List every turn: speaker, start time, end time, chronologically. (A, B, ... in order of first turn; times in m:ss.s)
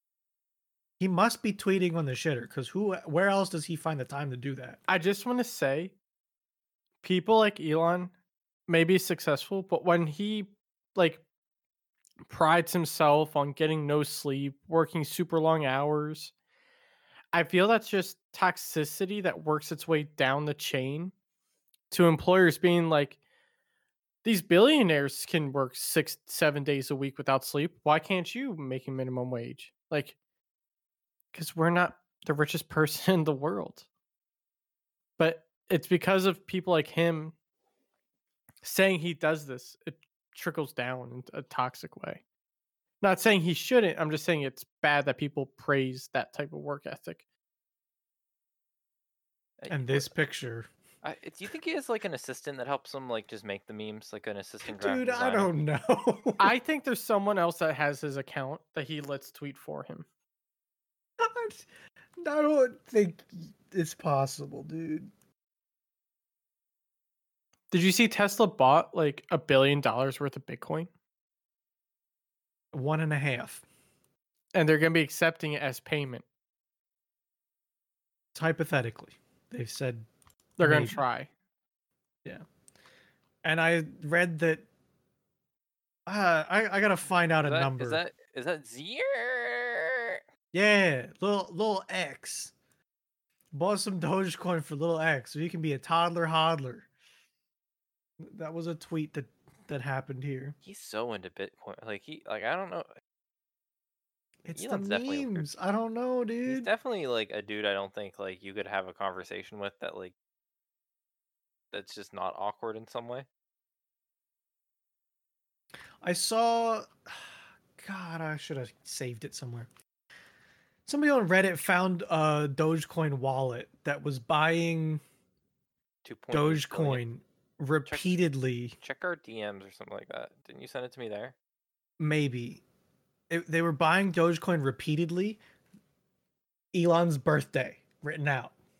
0:01.0-0:04.8 A
0:04.9-0:05.9 B
0:07.0-0:08.1 B
0:08.7-0:11.2 B
0:12.3-0:16.3 B
0:17.3-0:21.1 B
0:21.9-0:23.2 B
0:24.2-0:30.2 B
0:31.3-0:33.9 B
0:35.2-0:37.3 B
0:38.6-0:42.2 B
0:43.0-0:47.2 B
0:49.6-0:50.1 C
0:49.7-0:50.7 A
0:51.0-0:55.5 C
0:54.6-0:56.5 A
0:56.4-1:00.1 B
1:01.2-1:01.7 A
1:02.2-1:05.1 A
1:07.7-1:10.9 B
1:12.7-1:13.6 A
1:14.5-1:16.2 B
1:18.4-1:20.1 A
1:20.6-1:21.3 B
1:20.6-1:21.0 A
1:23.4-1:24.7 A
1:26.1-1:28.0 A
1:27.4-1:30.2 C
1:30.5-1:32.5 A
1:33.5-1:36.9 A
1:38.2-1:40.6 A
1:40.6-1:42.9 C
1:44.4-1:46.7 A
1:44.6-1:45.5 C
1:46.5-1:50.2 C
1:51.7-1:53.3 C
1:56.0-1:59.7 A
2:00.9-2:05.0 A
2:06.0-2:07.0 C
2:06.3-2:08.8 A
2:07.9-2:08.1 C
2:08.8-2:11.4 C
2:12.0-2:12.6 A
2:13.3-2:15.4 A
2:16.7-2:18.6 A